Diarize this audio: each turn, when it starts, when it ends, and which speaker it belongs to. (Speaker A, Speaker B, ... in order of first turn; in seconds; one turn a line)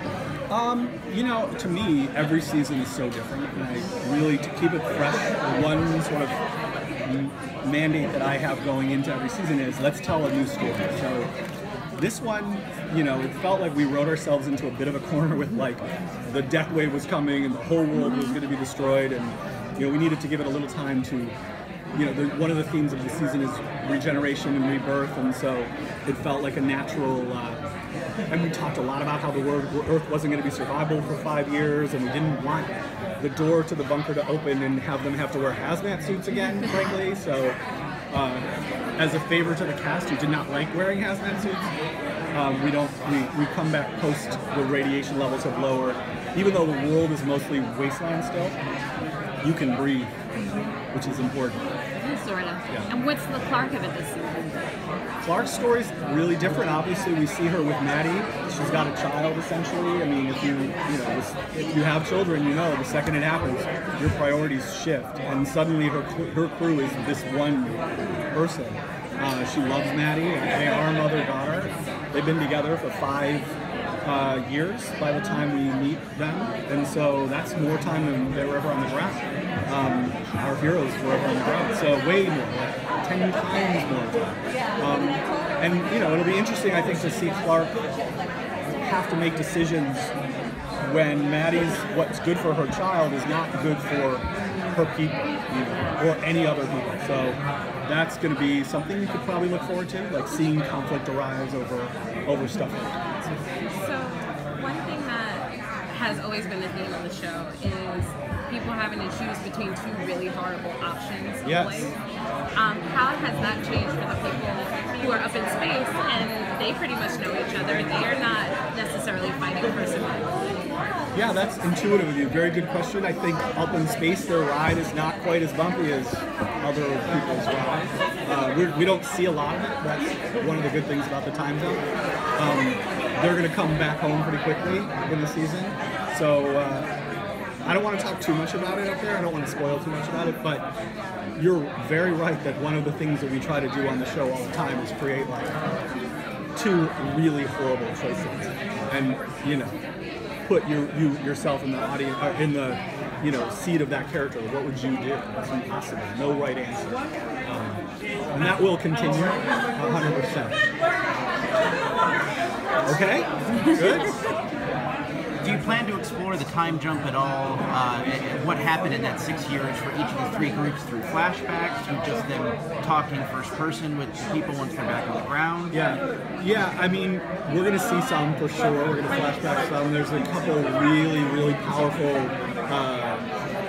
Speaker A: 0.5-6.4
Speaker A: 7.0-11.3
Speaker A: 11.9-21.3
Speaker B: 17.9-18.4
Speaker A: 21.9-27.6
Speaker A: 28.3-37.6
Speaker A: 38.1-41.7
Speaker A: 42.3-48.6
Speaker A: 49.4-50.1
Speaker A: 50.9-51.6
Speaker B: 52.0-54.7
Speaker A: 55.2-87.8
Speaker A: 88.8-90.1
Speaker A: 90.8-103.3
Speaker C: 103.6-111.9
Speaker A: 111.4-111.9
Speaker C: 112.5-120.3
Speaker A: 121.1-131.8
Speaker A: 132.4-136.9
Speaker A: 137.6-140.7
Speaker A: 141.3-145.5
Speaker A: 146.6-149.7
Speaker A: 150.5-160.7
Speaker A: 162.8-164.1
Speaker D: 165.4-175.8
Speaker A: 175.7-183.3